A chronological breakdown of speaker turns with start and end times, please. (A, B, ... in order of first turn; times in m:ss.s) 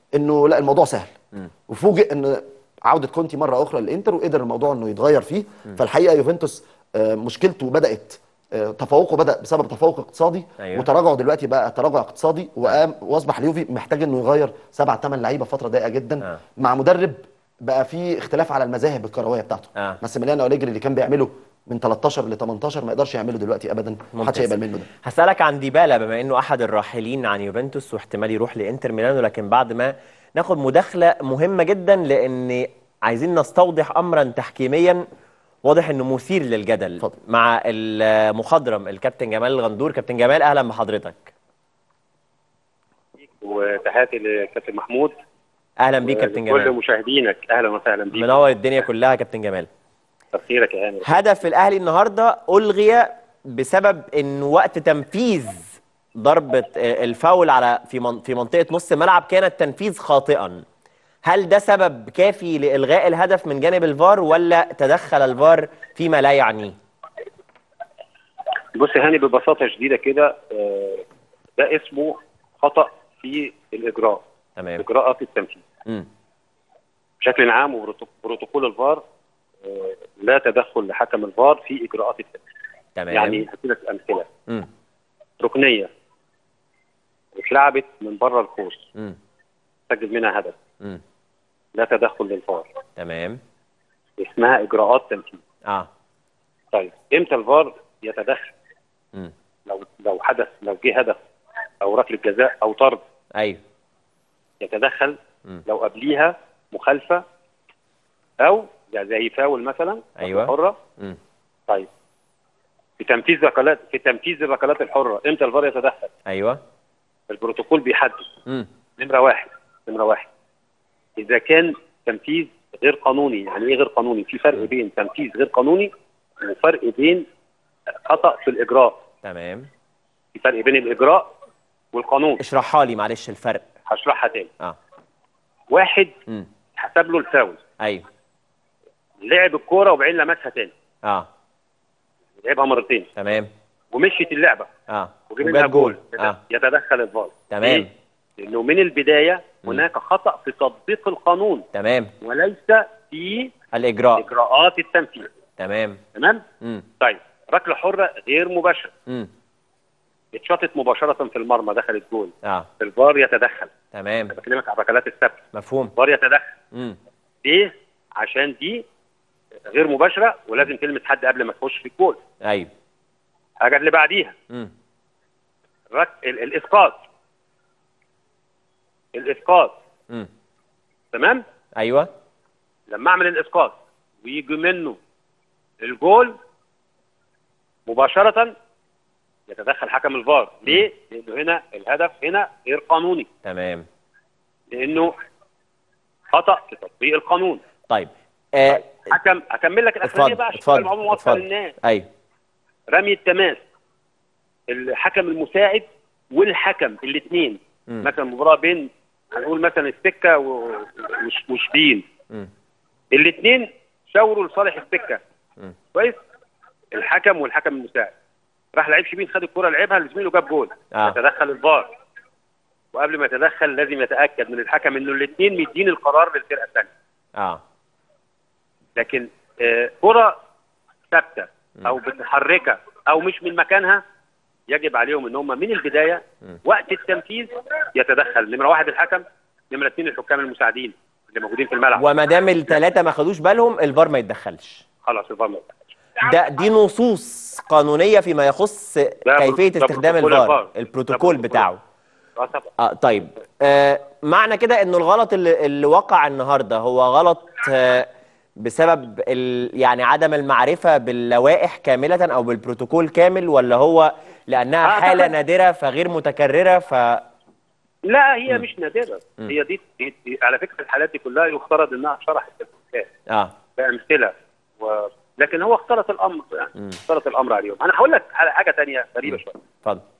0:00.1-0:01.1 A
0:01.7-0:24.9 A
0:10.6-0:10.9 B
0:24.2-0:24.5 B
0:25.0-0:35.0 B
0:35.6-0:41.3 B
0:43.4-0:45.1 C
0:45.8-0:46.7 B
0:46.0-0:48.4 C
0:48.1-0:49.7 B
0:50.3-0:51.1 C
0:51.0-1:00.6 B
1:01.2-1:06.8 B
1:08.7-1:11.0 C
1:11.6-1:14.2 C
1:14.6-1:14.8 B
1:14.8-1:15.6 C
1:17.2-1:19.0 C
1:19.6-1:22.4 C
1:23.0-1:23.4 B
1:23.1-1:24.3 C
1:25.4-1:25.9 C
1:27.3-1:28.9 C
1:29.9-1:30.6 C
1:31.7-1:32.7 C
1:33.0-1:33.4 B
1:34.2-1:35.4 C
1:36.7-1:38.5 C
1:39.7-1:41.2 C
1:41.8-1:43.0 C
1:43.4-1:43.6 B
1:44.6-1:47.2 C
1:48.4-1:50.8 C
1:50.2-1:51.2 B
1:53.0-1:56.1 C
1:56.3-1:56.6 B
1:57.3-1:58.2 C
1:59.0-2:00.3 C
2:01.2-2:07.2 C
2:08.0-2:09.0 C
2:09.2-2:09.7 B
2:10.3-2:11.3 C
2:11.9-2:12.4 C
2:12.4-2:13.6 B
2:13.9-2:14.5 C
2:15.7-2:16.1 C
2:16.7-2:17.6 C
2:17.8-2:18.0 B
2:19.2-2:20.7 C
2:21.0-2:21.3 B
2:22.4-2:23.1 C
2:23.2-2:23.5 B
2:23.9-2:24.7 C
2:24.9-2:26.4 B
2:25.3-2:31.6 C
2:27.5-2:27.9 B
2:31.7-2:32.1 B
2:32.2-2:33.5 C
2:33.7-2:34.2 B
2:34.2-2:35.3 C
2:35.6-2:36.0 B
2:36.1-2:36.4 C
2:36.6-2:36.8 B
2:37.0-2:38.9 C
2:40.3-2:43.7 C
2:42.4-2:42.7 B
2:43.9-2:44.3 B
2:44.3-2:45.4 C
2:45.5-2:45.9 B
2:46.0-2:46.5 C
2:46.7-2:47.0 B
2:47.4-2:48.8 C
2:49.7-2:52.2 C
2:52.4-2:52.7 B
2:53.6-2:54.3 C
2:55.9-2:57.0 C
2:59.1-2:59.7 C
3:01.1-3:01.4 C
3:01.8-3:02.1 B
3:02.9-3:05.0 C
3:05.8-3:06.4 C
3:07.9-3:08.5 C
3:09.5-3:13.3 C
3:13.4-3:13.8 B
3:14.7-3:15.1 C
3:16.3-3:17.6 C
3:17.9-3:19.0 B
3:19.1-3:21.7 C
3:20.0-3:22.1 B
3:22.9-3:23.6 C
3:24.7-3:32.0 C
3:33.1-3:35.2 C
3:36.9-3:38.1 C
3:38.7-3:41.9 C
3:42.9-3:46.9 C
3:47.4-3:47.6 B
3:49.0-3:50.4 C
3:51.1-3:54.0 C
3:54.7-4:02.0 C
4:01.9-4:04.8 B
4:05.0-4:05.8 C
4:06.2-4:11.8 B
4:09.2-4:11.6 C
4:12.4-4:12.7 C
4:12.8-4:27.2 B
4:24.8-4:25.3 C
4:28.0-4:33.1 C
4:33.3-4:33.5 B
4:33.8-4:39.6 C
4:39.2-4:40.0 B